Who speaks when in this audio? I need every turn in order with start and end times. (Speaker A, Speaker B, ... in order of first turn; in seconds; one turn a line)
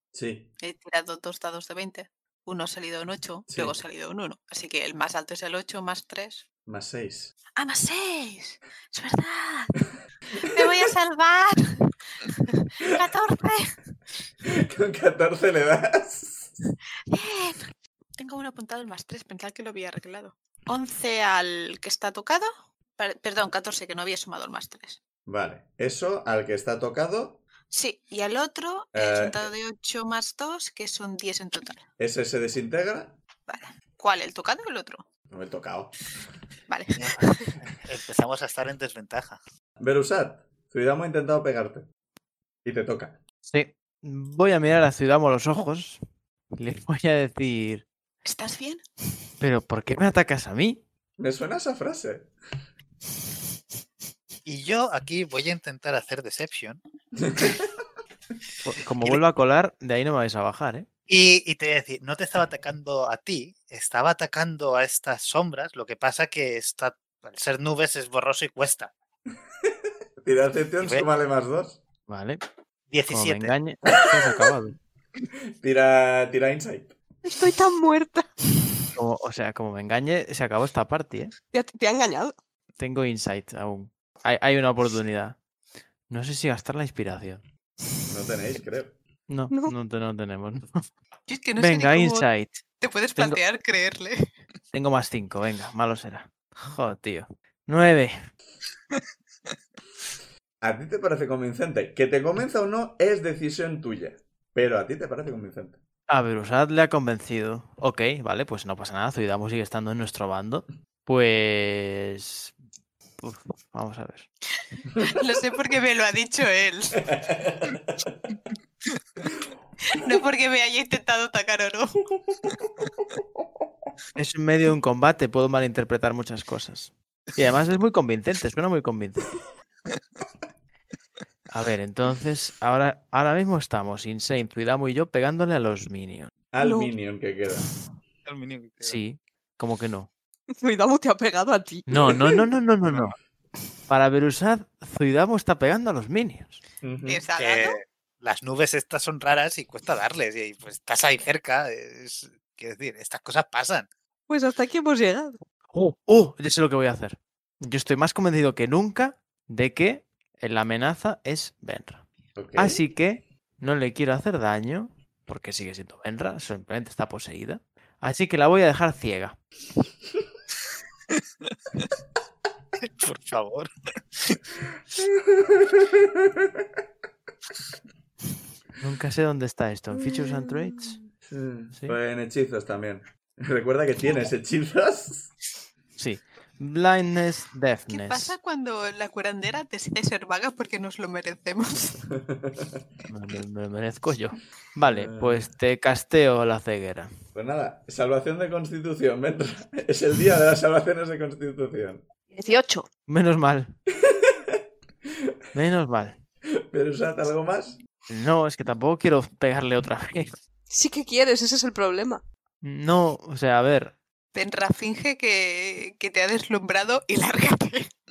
Speaker A: 0.1-0.5
Speaker B: 0.6-6.4
Speaker A: 3.5-3.8
Speaker A: 6.7-7.3
Speaker B: 7.6-9.7
Speaker B: 10.4-13.8
Speaker A: 10.4-10.8
Speaker A: 14.5-16.5
Speaker B: 17.1-25.0
Speaker A: 25.3-27.4
Speaker B: 27.7-31.8
Speaker A: 28.9-29.5
Speaker A: 32.0-33.2
Speaker B: 33.5-35.0
Speaker A: 35.3-35.9
Speaker B: 36.7-37.5
Speaker C: 37.7-39.4
Speaker A: 39.8-41.9
Speaker A: 42.6-43.2
Speaker D: 43.5-46.0
Speaker D: 46.5-47.9
Speaker B: 48.2-48.8
Speaker D: 49.4-50.8
Speaker A: 51.2-52.3
Speaker C: 54.5-56.8
Speaker A: 57.2-57.7
Speaker D: 58.6-60.9
Speaker C: 61.1-68.9
Speaker A: 70.2-71.8
Speaker C: 70.8-71.1
Speaker D: 72.1-72.4
Speaker C: 72.9-73.5
Speaker D: 73.1-74.8
Speaker A: 75.6-77.0
Speaker E: 77.2-78.3
Speaker D: 79.0-81.3
Speaker E: 81.5-82.3
Speaker D: 82.8-85.4
Speaker D: 86.1-87.4
Speaker A: 88.1-89.0
Speaker D: 89.3-90.9
Speaker B: 91.3-94.3
Speaker D: 91.6-92.6
Speaker D: 94.7-98.1
Speaker A: 100.6-105.8
Speaker D: 106.1-112.5
Speaker D: 113.2-114.3
Speaker B: 115.0-117.1
Speaker A: 117.0-118.2
Speaker B: 119.9-122.0
Speaker D: 124.2-129.4
Speaker D: 131.5-136.3
Speaker A: 136.5-137.7
Speaker E: 136.6-136.9
Speaker C: 138.2-139.0
Speaker D: 138.8-140.1
Speaker E: 140.6-142.2
Speaker D: 141.9-143.2
Speaker D: 143.9-146.6
Speaker A: 146.8-147.2
Speaker B: 147.1-147.8
Speaker C: 147.4-153.9
Speaker E: 154.3-155.4
Speaker D: 155.7-162.0
Speaker A: 162.4-162.8
Speaker D: 162.6-169.4
Speaker C: 172.8-174.4
Speaker A: 175.0-176.7
Speaker D: 178.8-181.0
Speaker A: 181.2-185.3
Speaker D: 186.0-188.3
Speaker B: 187.9-192.1
Speaker A: 192.2-192.8
Speaker D: 193.1-197.1
Speaker A: 194.9-195.5
Speaker A: 197.3-202.0
Speaker E: 202.3-202.9
Speaker D: 203.1-203.7
Speaker A: 204.1-204.6
Speaker D: 205.5-206.2
Speaker A: 206.7-207.8
Speaker D: 208.1-210.4
Speaker E: 210.7-212.2
Speaker D: 212.6-214.0
Speaker B: 214.3-217.9